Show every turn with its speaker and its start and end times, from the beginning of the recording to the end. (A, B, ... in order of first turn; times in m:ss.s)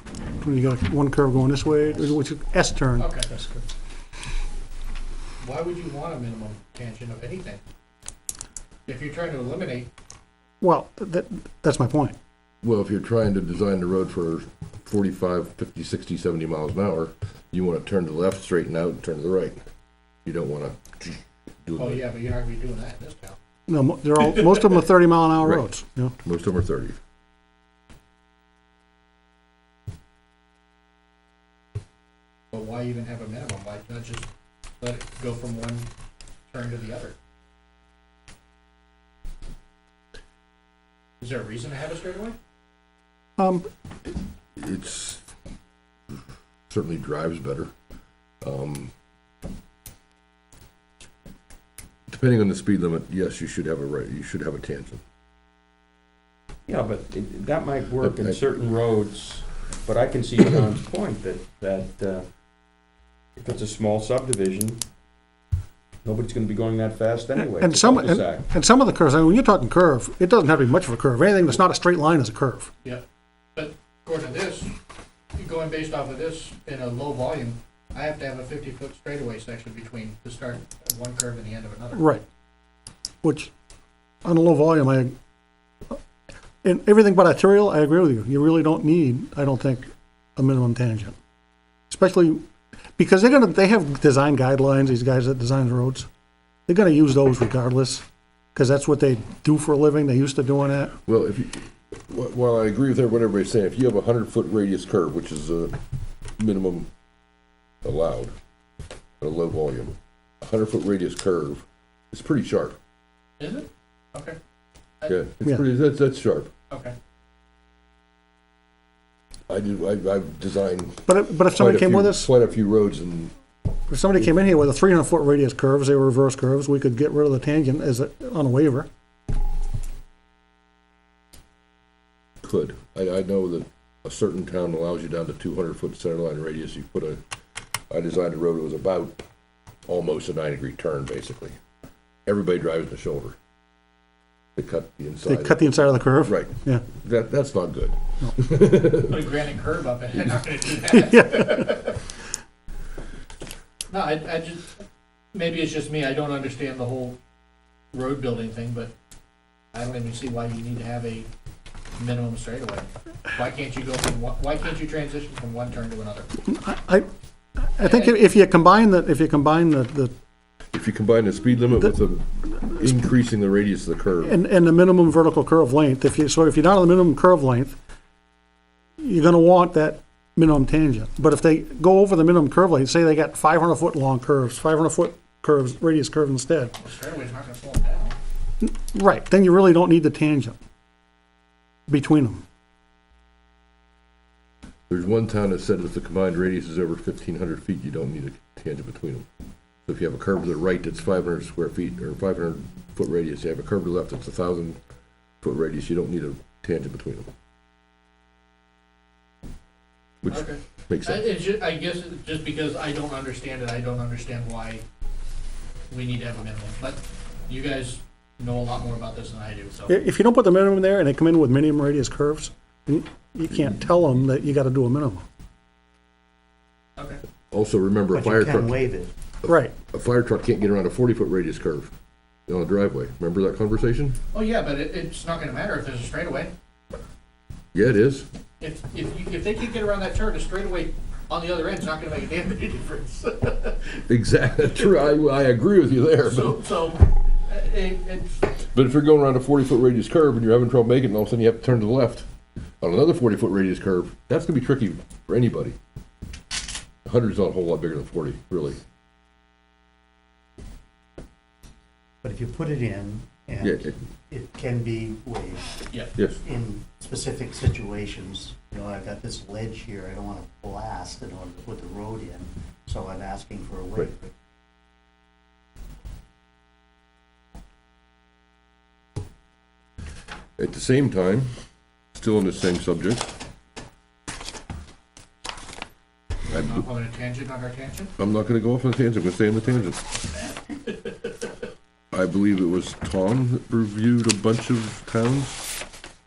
0:00.4-0:03.6 A
0:03.0-0:03.3 B
0:05.4-0:07.6 B
0:08.9-0:09.9 B
0:10.6-0:12.2 A
0:12.6-0:19.6 C
0:20.3-0:22.0 C
0:21.8-0:23.4 B
0:23.7-0:26.1 A
0:24.4-0:24.7 B
0:26.2-0:27.0 C
0:32.5-0:34.3 B
0:34.8-0:35.9 B
0:36.5-0:37.2 B
0:41.2-0:42.4 B
0:43.4-0:43.7 A
0:44.6-0:45.2 C
0:46.7-0:47.7 C
0:48.4-0:48.9 C
0:52.1-0:55.0 C
0:56.7-1:02.3 D
0:58.0-0:58.4 C
1:03.4-1:04.9 D
1:06.0-1:08.5 D
1:07.6-1:12.7 A
1:13.6-1:14.8 B
1:15.4-1:22.1 B
1:22.0-1:22.2 A
1:23.2-1:23.5 A
1:24.2-1:25.2 A
1:26.6-1:31.2 A
1:31.9-1:32.4 A
1:33.0-1:36.1 A
1:36.7-1:38.0 A
1:38.6-1:40.8 A
1:41.1-1:45.8 C
1:46.4-1:46.9 C
1:47.8-1:48.3 C
1:49.2-1:52.8 C
1:53.4-1:54.4 B
1:55.1-1:56.5 C
1:56.7-1:57.0 B
1:59.5-2:03.3 C
2:01.1-2:02.3 A
2:03.9-2:08.9 A
2:12.4-2:17.2 C
2:17.9-2:19.2 C
2:19.9-2:21.6 C
2:22.3-2:23.4 C
2:24.6-2:29.2 C
2:25.2-2:26.8 A
2:29.1-2:32.0 B
2:31.0-2:31.7 A
2:33.9-2:34.7 B
2:35.3-2:37.2 B
2:37.9-2:38.9 B
2:39.7-2:41.3 B
2:42.0-2:46.3 B
2:46.4-2:47.1 A
2:47.6-2:50.1 A
2:47.8-2:48.2 B
2:50.7-2:54.4 C
2:54.3-2:57.8 A
2:59.0-3:06.7 A
3:06.8-3:08.2 B
3:08.6-3:10.6 A
3:11.9-3:12.4 A
3:14.9-3:19.3 C
3:19.9-3:24.8 C
3:25.4-3:27.3 C
3:30.2-3:31.3 C
3:30.3-3:34.8 B
3:35.9-3:40.0 B
3:39.9-3:45.2 A
3:47.5-3:48.8 C
3:48.1-3:49.1 E
3:49.5-3:49.7 A
3:49.5-3:51.9 C
3:52.5-3:54.2 C
3:54.3-3:56.5 B
3:57.7-3:58.3 C
3:58.6-4:04.0 B
4:04.1-4:06.6 C
4:06.2-4:08.4 B
4:08.7-4:12.3 C
4:12.8-4:15.8 C
4:17.1-4:18.8 C
4:22.2-4:25.7 E
4:23.6-4:23.9 C
4:26.4-4:34.3 E
4:40.6-4:41.5 C
4:42.1-4:43.4 C
4:46.5-4:48.1 B
4:46.5-4:46.8 C
4:48.2-4:50.0 C
4:49.7-4:51.3 B
4:52.1-4:55.7 C